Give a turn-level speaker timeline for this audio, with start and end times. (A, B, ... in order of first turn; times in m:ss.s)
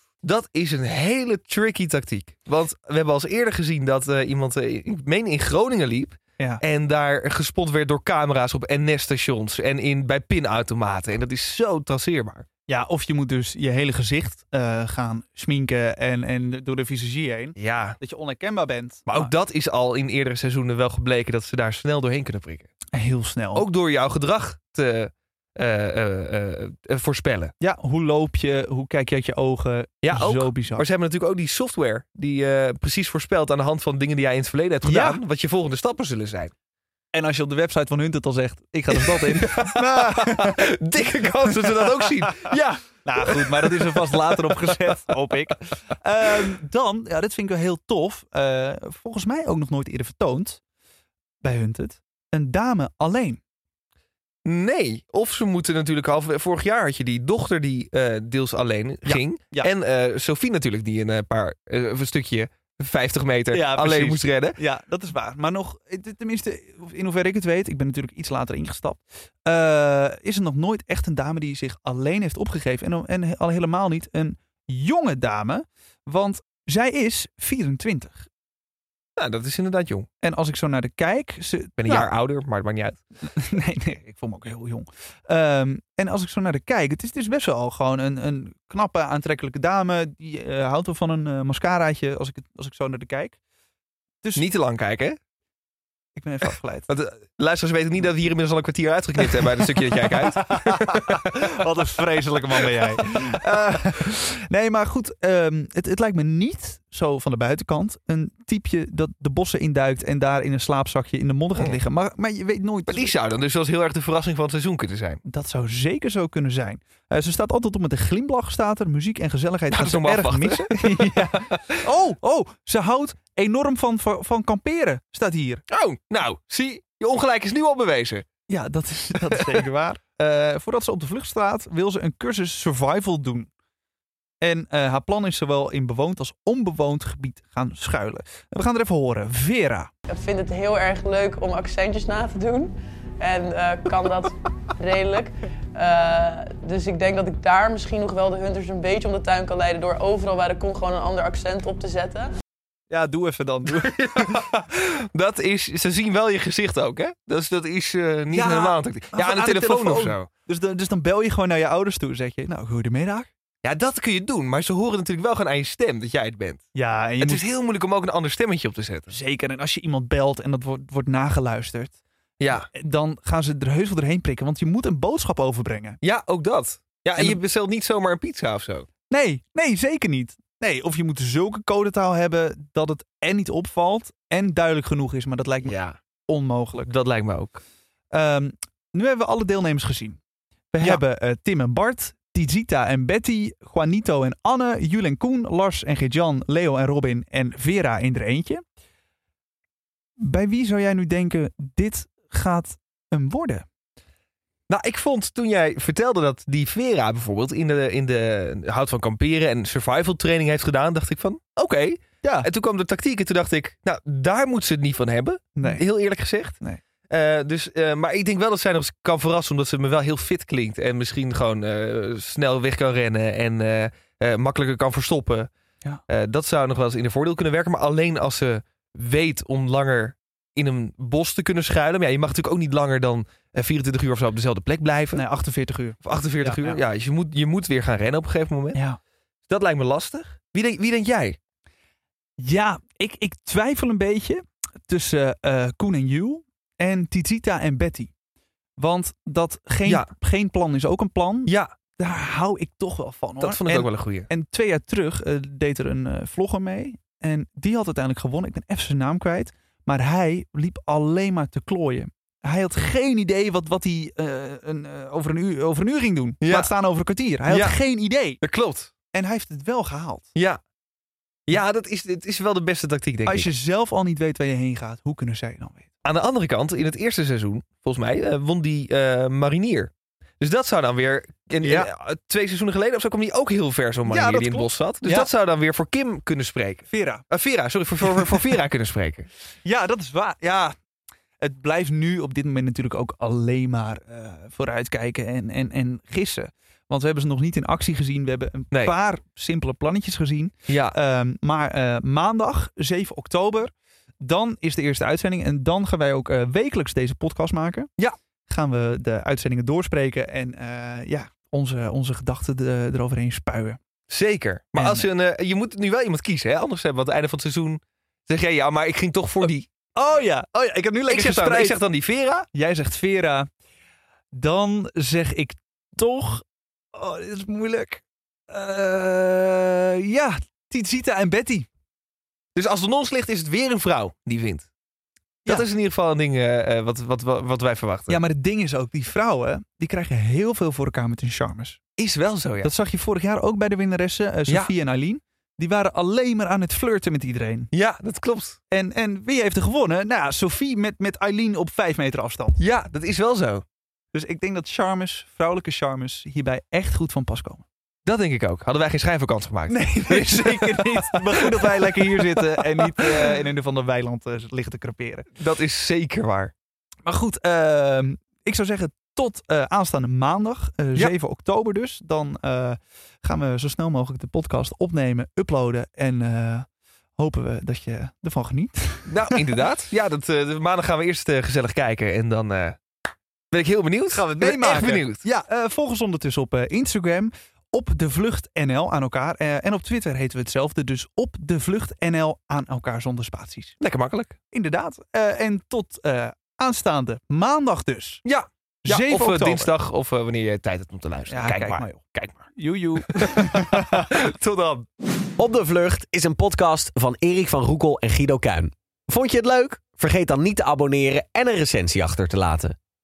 0:00.2-0:12.5 A
0:12.7-0:19.3 B
0:17.6-0:18.0 A
0:19.1-0:22.7 A
0:22.9-0:23.7 B
0:23.5-0:27.5 A
0:27.6-0:30.8 B
0:30.0-0:36.5 A
0:34.8-0:35.2 B
0:37.1-0:40.7 B
0:39.0-0:44.8 A
0:41.5-0:50.6 B
0:51.4-0:53.4 B
0:54.4-1:04.6 A
0:59.0-0:59.7 B
1:03.5-1:18.3 B
1:19.2-1:20.1 A
1:20.2-1:22.1 B
1:21.8-1:23.0 A
1:23.2-1:33.4 B
1:34.4-1:35.2 A
1:36.2-1:36.9 B
1:36.9-1:41.3 A
1:39.3-1:53.1 B
1:52.9-1:55.2 A
1:55.2-2:05.6 B
1:59.7-2:01.7 A
2:05.7-2:08.3 A
2:08.5-2:13.5 B
2:14.4-2:19.9 B
2:20.1-2:32.3 C
2:32.9-2:34.5 B
2:33.8-2:40.3 A
2:38.3-2:43.3 B
2:43.6-2:46.6 A
2:46.7-2:47.5 B
2:47.2-2:49.1 A
2:49.1-2:52.0 B
2:52.4-2:52.7 A
2:52.7-2:56.0 B
2:56.0-2:58.9 A
2:59.1-3:05.8 B
3:05.6-3:06.0 A
3:06.3-3:06.9 B
3:06.8-3:07.6 A
3:08.1-3:10.2 B
3:10.7-3:18.6 B
3:20.2-3:23.6 B
3:24.7-3:36.6 A
3:32.2-3:32.5 B
3:35.6-3:35.8 B
3:37.1-3:45.5 A
3:46.1-3:55.2 A
3:55.1-3:56.8 B
3:56.0-3:58.8 A
3:58.7-3:59.0 B
3:59.5-4:01.4 A
4:02.4-4:08.1 B
4:08.8-4:28.4 B
4:09.8-4:10.1 A
4:11.5-4:11.7 A
4:13.4-4:14.3 A
4:26.4-4:26.7 A
4:27.5-4:27.8 A
4:28.4-4:28.9 A
4:29.1-4:30.3 B
4:30.4-4:30.6 A
4:31.5-4:33.5 A
4:33.3-4:35.9 B
4:36.0-4:49.3 A
4:41.6-4:41.9 B
4:44.1-4:45.3 B
4:46.9-4:47.3 B
4:48.0-4:48.5 B
4:49.6-4:50.8 B
4:51.4-5:07.9 B
5:00.7-5:00.9 A
5:08.5-5:13.8 B
5:14.1-5:19.7 A
5:14.8-5:15.1 B
5:19.9-5:21.8 B
5:21.1-5:22.5 A
5:22.5-5:23.5 B
5:24.3-5:31.7 B
5:32.6-5:34.7 A
5:35.5-5:38.2 A
5:38.1-5:41.8 B
5:42.0-5:42.7 A
5:42.6-5:47.7 B
5:47.7-5:48.6 A
5:48.7-5:52.6 B
5:52.6-5:53.6 A
5:54.1-5:57.6 B
5:58.0-6:03.2 A
5:59.7-6:05.3 B
6:05.4-6:06.5 A
6:07.0-6:19.6 B
6:19.1-6:22.8 A
6:23.5-6:25.2 A
6:24.1-6:33.8 B
6:33.8-6:34.4 A
6:34.5-6:38.2 B
6:38.2-6:42.5 A
6:38.8-6:39.7 B
6:41.3-6:44.1 B
6:43.1-6:44.9 A
6:45.4-6:52.8 D